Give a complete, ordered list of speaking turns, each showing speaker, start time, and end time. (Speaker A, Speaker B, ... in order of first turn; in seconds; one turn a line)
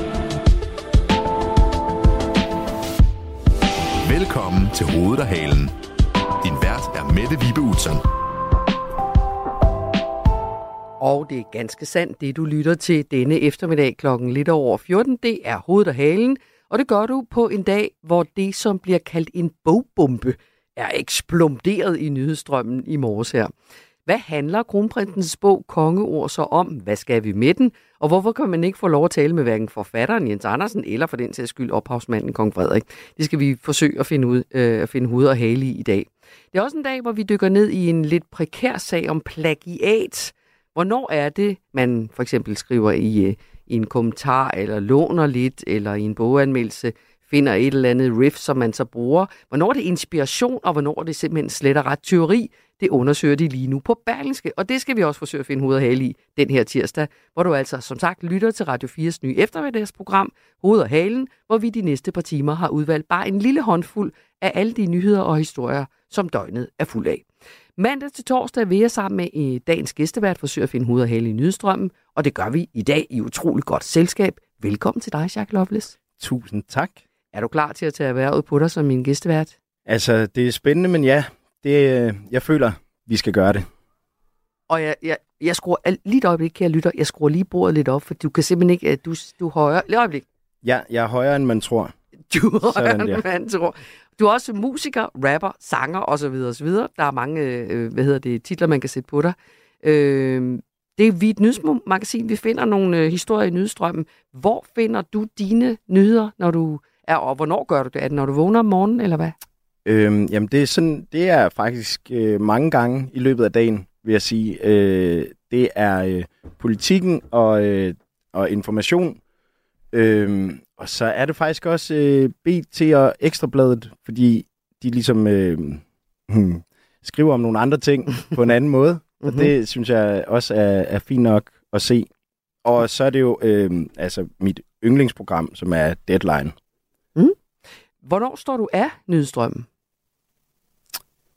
Speaker A: 4.0-5.7
Speaker A: 6.4-8.0
Speaker B: 11.0-23.5
Speaker B: 24.1-67.3
Speaker B: 67.8-76.0
Speaker C: 76.2-77.0
Speaker B: 77.3-79.5
Speaker C: 79.9-83.7
Speaker B: 84.7-90.2
Speaker C: 90.6-91.9
Speaker B: 92.3-109.4
Speaker C: 92.7-93.2
Speaker C: 109.8-119.2
Speaker C: 119.9-132.1
Speaker B: 129.2-129.5
Speaker C: 132.6-136.6
Speaker B: 138.0-139.7